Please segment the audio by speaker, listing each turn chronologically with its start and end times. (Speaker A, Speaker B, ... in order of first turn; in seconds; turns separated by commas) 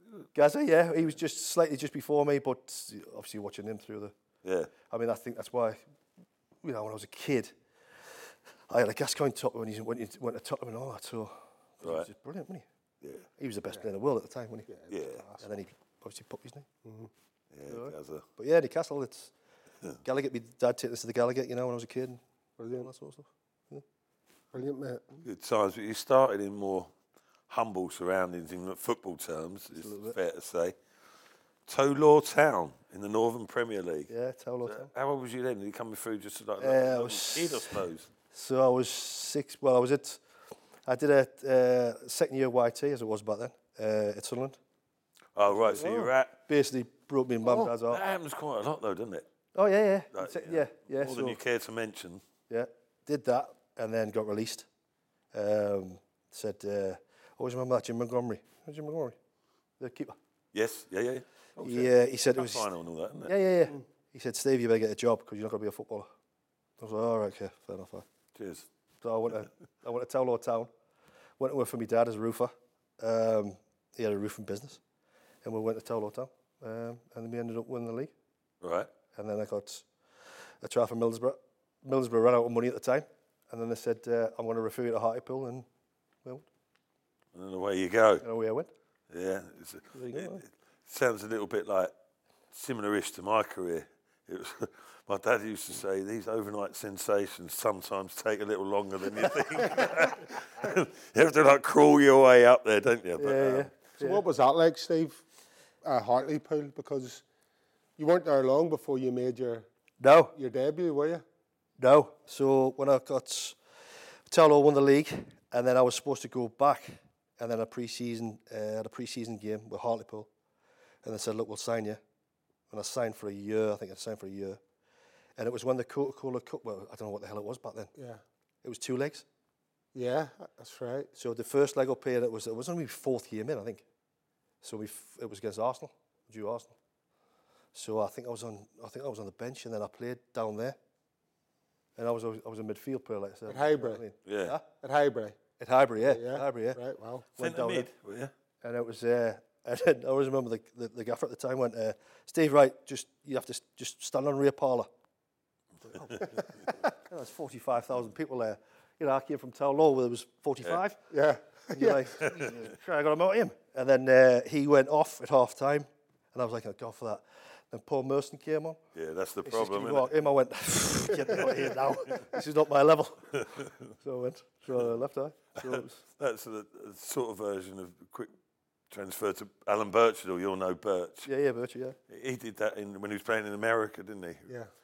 Speaker A: 0.3-4.1, Speaker B: 4.4-4.7, Speaker A: 4.9-5.8, Speaker A: 6.6-7.5, Speaker A: 8.7-12.7, Speaker A: 13.4-14.7, Speaker C: 14.7-15.5, Speaker B: 14.9-15.2, Speaker A: 15.4-16.7, Speaker C: 16.8-17.1, Speaker B: 17.5-18.2, Speaker A: 17.7-19.3, Speaker A: 20.0-22.2, Speaker C: 22.6-22.9, Speaker A: 22.7-23.8, Speaker C: 24.5-25.2, Speaker B: 25.2-26.9, Speaker B: 27.5-30.8, Speaker A: 29.7-30.2, Speaker B: 31.7-34.1, Speaker A: 34.1-34.9, Speaker B: 34.6-38.1, Speaker A: 36.6-40.2, Speaker A: 40.9-44.6, Speaker B: 45.3-46.4, Speaker A: 45.5-48.0, Speaker C: 45.8-46.1, Speaker B: 47.5-49.3, Speaker A: 49.5-51.4, Speaker B: 50.1-52.2, Speaker A: 52.5-54.7, Speaker A: 55.3-59.1, Speaker A: 59.8-60.2, Speaker B: 60.5-63.3, Speaker A: 61.6-62.6, Speaker A: 63.2-66.1, Speaker A: 66.8-68.0, Speaker B: 68.3-68.7, Speaker A: 69.0-70.7, Speaker A: 71.4-74.8, Speaker A: 75.4-78.1, Speaker B: 78.6-78.9, Speaker A: 79.1-79.9, Speaker A: 80.6-85.7, Speaker B: 87.3-88.2, Speaker A: 88.2-88.7, Speaker B: 89.1-91.9, Speaker A: 90.0-90.4, Speaker B: 92.5-103.7, Speaker A: 103.2-104.2, Speaker C: 104.0-105.2, Speaker C: 105.8-107.2, Speaker C: 108.0-109.7, Speaker A: 110.0-110.3, Speaker C: 110.3-111.2, Speaker A: 111.8-113.6, Speaker A: 114.3-120.3, Speaker A: 121.0-122.0, Speaker A: 122.7-124.6, Speaker A: 125.4-127.9, Speaker C: 128.0-128.2, Speaker A: 128.6-129.2, Speaker C: 129.9-131.1, Speaker A: 131.1-133.8, Speaker A: 134.6-136.8, Speaker A: 137.7-140.8, Speaker A: 141.9-144.6, Speaker C: 143.5-144.0, Speaker B: 144.2-144.6, Speaker C: 144.7-145.4, Speaker A: 145.6-146.8, Speaker C: 146.0-147.3, Speaker A: 147.4-147.9, Speaker B: 147.4-148.3, Speaker A: 148.6-154.9, Speaker A: 155.8-161.0, Speaker B: 156.2-156.4, Speaker C: 161.1-162.2, Speaker A: 161.7-168.8, Speaker B: 162.2-162.6, Speaker B: 168.9-170.1, Speaker A: 169.4-176.0, Speaker B: 173.4-173.7, Speaker B: 175.6-178.3, Speaker B: 178.9-181.3, Speaker A: 181.2-182.0, Speaker B: 182.1-184.5